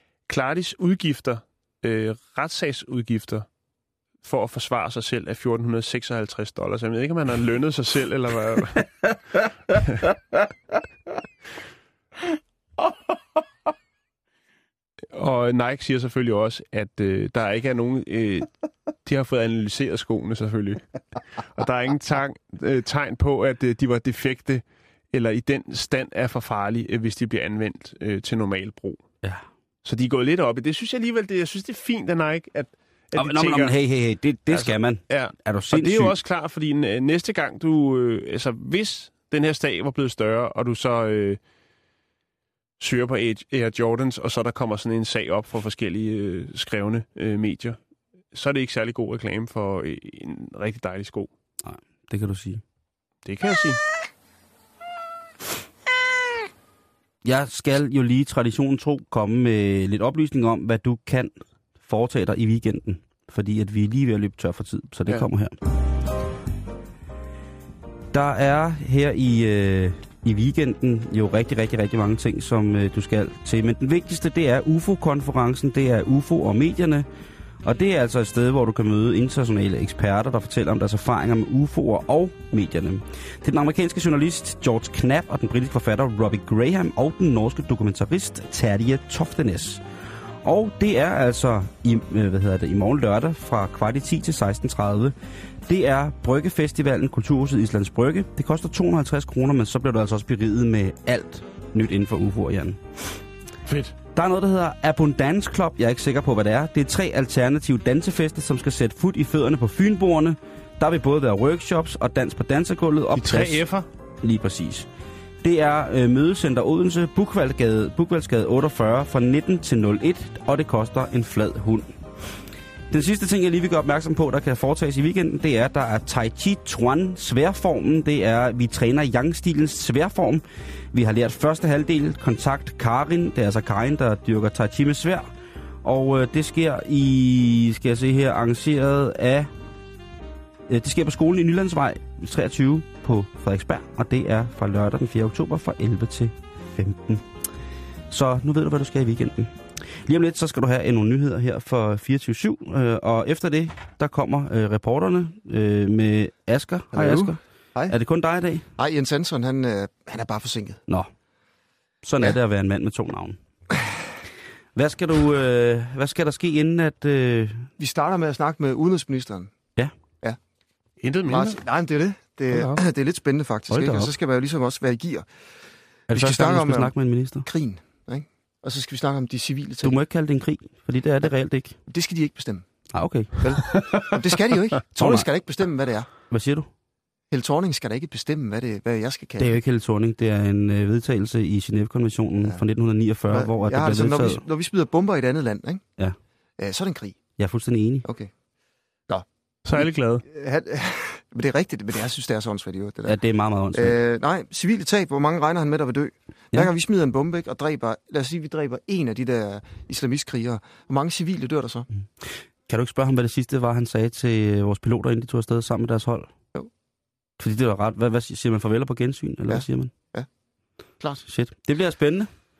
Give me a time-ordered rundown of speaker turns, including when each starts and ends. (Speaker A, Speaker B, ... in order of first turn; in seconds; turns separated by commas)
Speaker A: 0.3-3.5, Speaker A: 4.2-8.9, Speaker A: 9.7-10.1, Speaker A: 15.1-18.5, Speaker A: 19.0-20.8, Speaker A: 21.4-29.0, Speaker A: 29.8-33.8, Speaker B: 33.1-36.2, Speaker A: 34.5-41.4, Speaker A: 42.8-47.8, Speaker A: 48.3-51.3, Speaker B: 51.6-52.6, Speaker A: 53.2-53.8, Speaker B: 57.2-65.6, Speaker B: 68.1-77.1, Speaker B: 77.6-89.8, Speaker B: 90.4-102.8, Speaker A: 103.7-104.0, Speaker B: 104.1-113.7, Speaker A: 113.1-113.9, Speaker B: 114.2-114.9, Speaker B: 115.4-121.9, Speaker B: 122.9-135.3, Speaker B: 135.8-139.5, Speaker B: 140.7-147.3, Speaker B: 148.1-158.7, Speaker C: 156.9-158.0, Speaker C: 158.8-160.8, Speaker B: 162.0-163.4, Speaker B: 164.8-167.7, Speaker C: 167.8-169.5, Speaker A: 171.0-171.6, Speaker C: 171.3-175.3, Speaker A: 172.5-172.8, Speaker B: 173.7-174.1, Speaker B: 176.1-177.5, Speaker C: 176.1-180.0, Speaker B: 179.8-181.8, Speaker C: 181.9-182.7, Speaker B: 182.9-183.8, Speaker C: 183.4-186.1, Speaker B: 184.9-185.3, Speaker B: 186.3-186.7, Speaker C: 187.3-189.6, Speaker B: 189.4-194.4, Speaker C: 193.3-195.8, Speaker C: 196.6-197.2, Speaker B: 197.4-198.1, Speaker C: 198.1-198.3, Speaker C: 199.1-203.2, Speaker A: 199.7-200.2, Speaker B: 203.1-204.0, Speaker C: 203.7-211.9, Speaker B: 212.2-216.3, Speaker B: 217.4-219.9, Speaker C: 219.5-220.3, Speaker B: 221.3-222.3